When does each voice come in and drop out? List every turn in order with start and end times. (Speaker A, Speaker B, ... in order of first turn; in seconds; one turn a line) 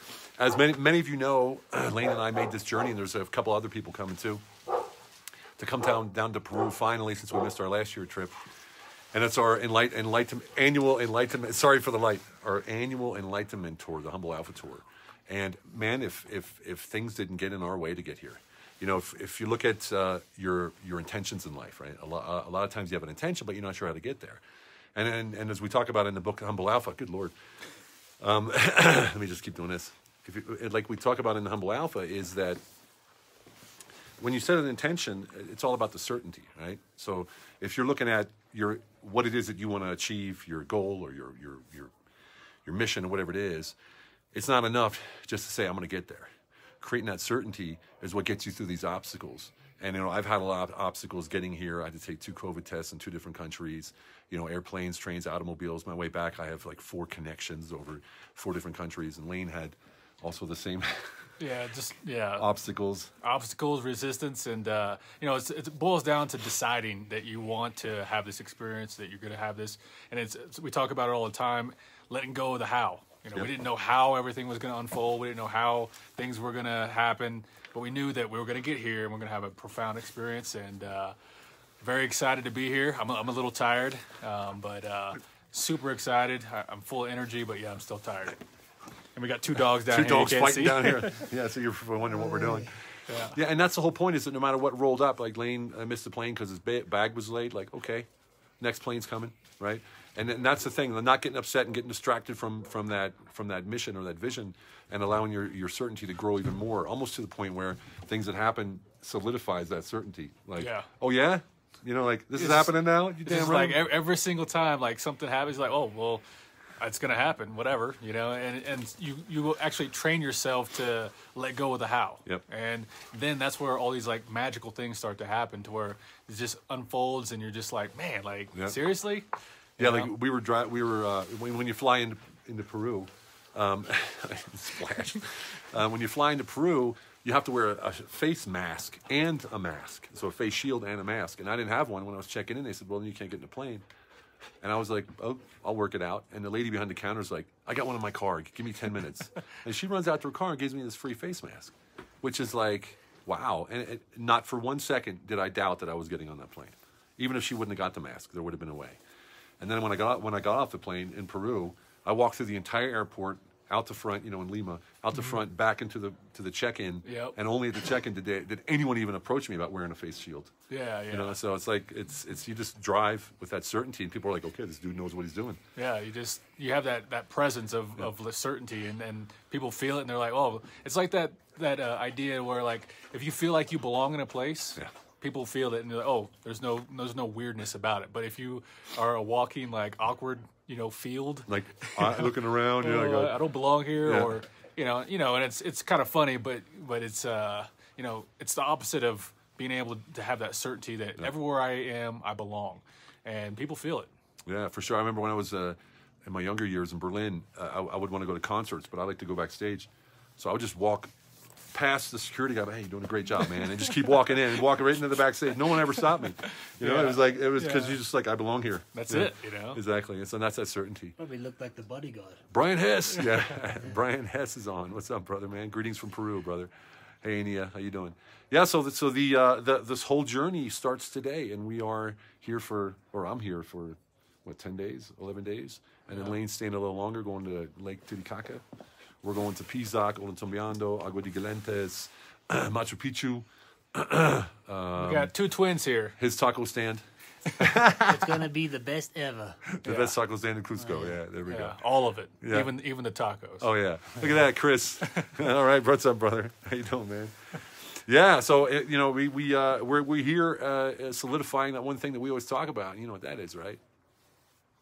Speaker A: 0.4-4.4
Speaker A: 5.6-8.4
Speaker A: 9.1-24.4
Speaker A: 24.9-27.3
Speaker A: 28.2-32.6
Speaker A: 34.2-41.9
Speaker A: 42.7-43.8
Speaker A: 44.3-46.3
Speaker A: 46.8-61.0
Speaker B: 61.4-62.5
Speaker A: 62.4-63.1
Speaker B: 63.2-81.2
Speaker B: 81.8-88.4
Speaker B: 89.2-91.3
Speaker A: 89.6-98.1
Speaker B: 93.1-93.4
Speaker A: 98.6-113.9
Speaker B: 110.6-110.9
Speaker B: 112.3-116.2
Speaker B: 116.8-130.1
Speaker A: 128.5-128.8
Speaker A: 129.8-143.8
Speaker A: 144.6-159.0
Speaker A: 159.6-170.5
Speaker B: 167.0-167.4
Speaker B: 170.7-171.4
Speaker A: 171.1-175.6
Speaker B: 175.8-204.1
Speaker A: 191.5-193.4
Speaker A: 194.0-194.4
Speaker A: 204.5-211.1
Speaker A: 211.7-221.2
Speaker B: 216.7-218.0
Speaker B: 218.9-219.8
Speaker C: 221.2-222.4
Speaker A: 222.5-226.7
Speaker B: 223.1-223.6
Speaker A: 227.2-238.6
Speaker B: 236.1-236.4
Speaker A: 239.2-245.3
Speaker B: 245.0-246.2
Speaker A: 246.2-248.5
Speaker C: 248.0-249.7
Speaker A: 249.8-252.8
Speaker B: 249.8-250.2
Speaker C: 250.8-251.2
Speaker B: 251.4-253.7
Speaker A: 253.6-263.8
Speaker B: 255.1-255.4